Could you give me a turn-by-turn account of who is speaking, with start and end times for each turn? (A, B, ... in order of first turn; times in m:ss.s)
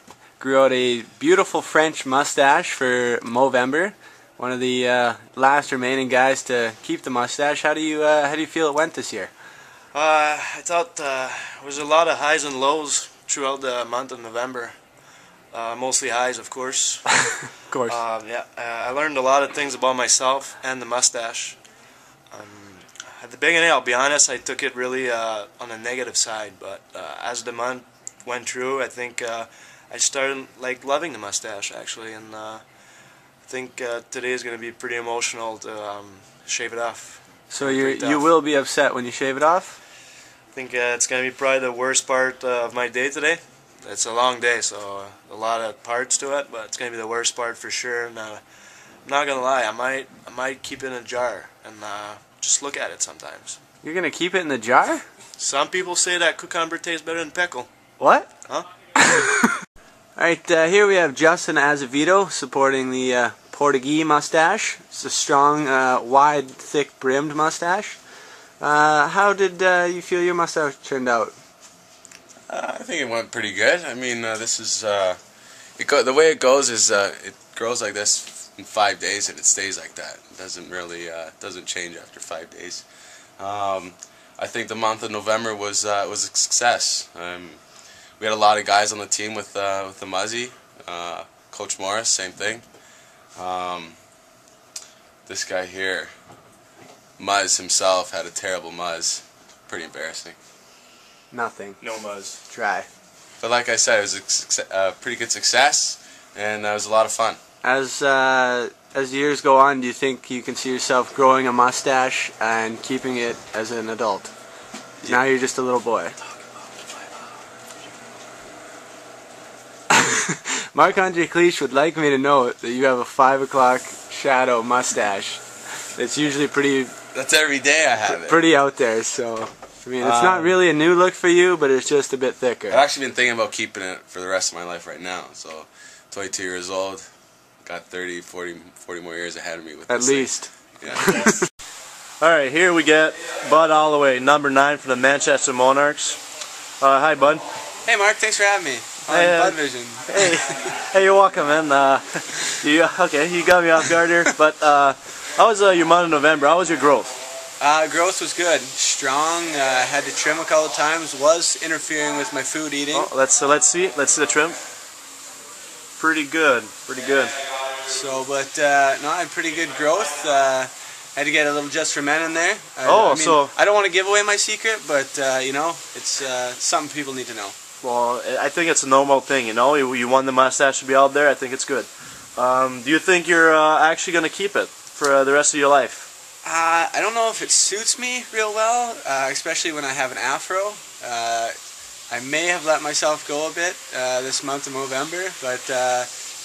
0:00.4-0:09.3 A
0:09.9-0:14.7 B
0:15.5-0:17.2 B
0:17.6-0:18.0 A
0:17.8-0:21.6 B
0:22.3-0:32.6 B
0:33.4-0:38.3 B
0:37.5-0:39.8 A
0:40.5-0:48.4 B
0:49.0-0:53.6 B
0:53.8-0:55.0 A
0:55.4-0:57.7 B
0:58.0-0:58.3 A
0:59.0-0:59.6 A
1:00.2-1:08.0 A
1:08.6-1:11.3 A
1:12.5-1:15.2 C
1:15.8-1:22.8 C
1:23.4-1:27.6 C
1:28.2-1:32.6 C
1:33.3-1:34.0 C
1:35.3-1:36.1 C
1:37.2-1:40.4 C
1:41.3-1:41.8 A
1:41.8-1:42.4 B
1:42.5-1:42.9 A
1:43.4-1:47.4 C
1:47.6-1:54.3 A
1:55.0-1:56.2 A
1:59.9-2:05.4 A
2:06.0-2:07.0 A
2:07.1-2:08.4 C
2:08.0-2:12.8 A
2:10.0-2:10.5 C
2:12.7-2:17.0 C
2:17.6-2:21.3 C
2:19.9-2:21.4 A
2:22.2-2:26.2 B
2:26.8-2:27.4 B
2:27.8-2:30.3 A
2:29.1-2:37.2 B
2:37.6-2:43.1 A
2:42.9-2:44.6 B
2:46.0-2:47.4 B
2:47.8-2:57.5 A
2:52.8-2:53.5 B
2:57.8-3:06.1 B
3:06.4-3:11.5 A
3:12.1-3:16.1 A